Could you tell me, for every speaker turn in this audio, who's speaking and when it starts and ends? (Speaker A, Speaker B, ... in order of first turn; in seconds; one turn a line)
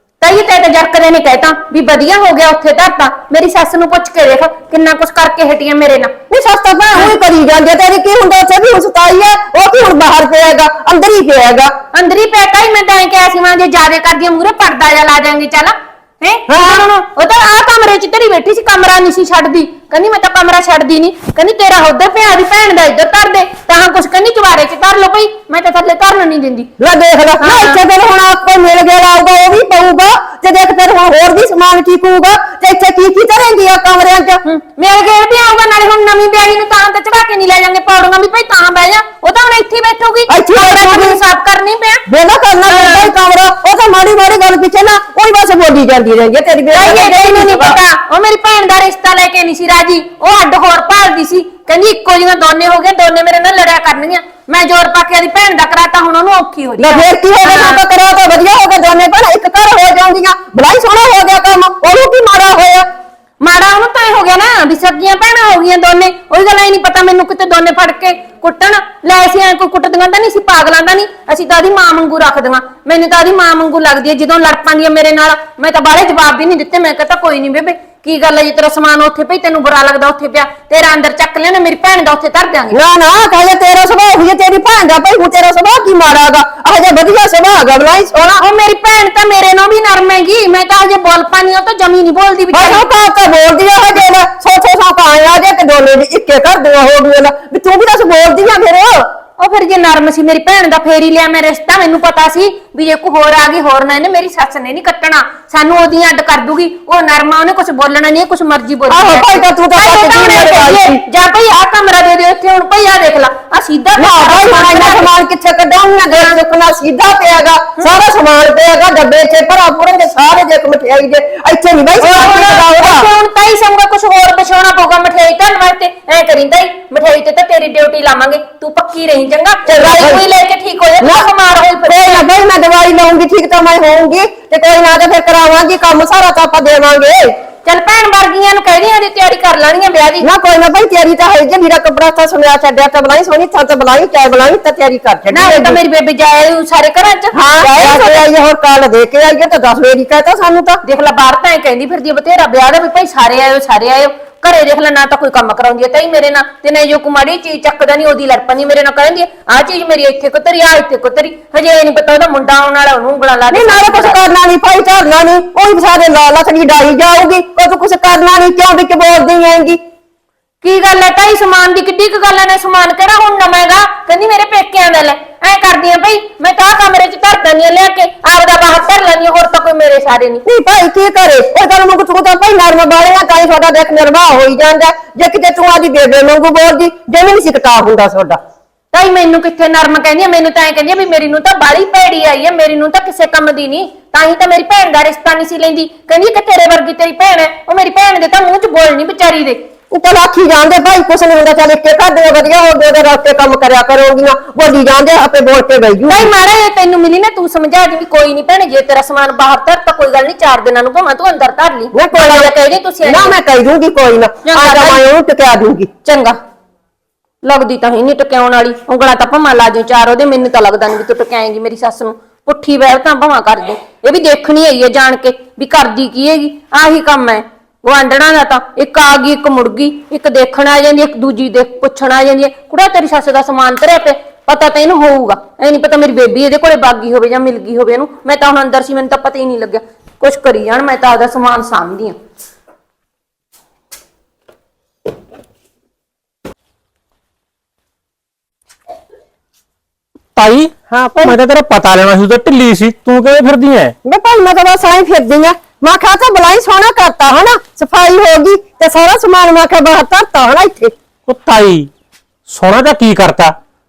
Speaker A: 0.2-6.1
Speaker B: 6.3-11.7
Speaker A: 11.9-26.7
Speaker B: 16.5-16.9
Speaker B: 26.8-34.4
Speaker A: 27.4-27.8
Speaker A: 34.4-42.0
Speaker B: 40.3-41.2
Speaker B: 42.1-47.8
Speaker A: 42.7-43.1
Speaker A: 46.7-57.8
Speaker B: 56.8-62.8
Speaker A: 63.4-82.8
Speaker B: 82.7-88.4
Speaker A: 88.3-92.8
Speaker B: 92.5-99.0
Speaker A: 99.4-115.1
Speaker B: 108.9-111.0
Speaker B: 114.0-123.1
Speaker A: 122.0-132.2
Speaker B: 129.7-130.2
Speaker B: 131.0-131.3
Speaker B: 131.8-137.3
Speaker A: 137.6-140.3
Speaker B: 140.2-145.8
Speaker A: 145.3-148.2
Speaker B: 147.3-150.8
Speaker A: 150.8-164.2
Speaker B: 163.5-169.8
Speaker A: 170.6-180.4
Speaker B: 180.4-188.4
Speaker A: 188.9-199.6
Speaker B: 199.9-206.3
Speaker A: 206.1-213.4
Speaker B: 211.9-215.9
Speaker A: 214.5-215.0
Speaker A: 216.0-216.3
Speaker A: 217.4-242.2
Speaker C: 250.3-253.9
Speaker B: 250.9-251.4
Speaker B: 254.0-260.9
Speaker C: 261.3-261.9
Speaker C: 262.5-263.5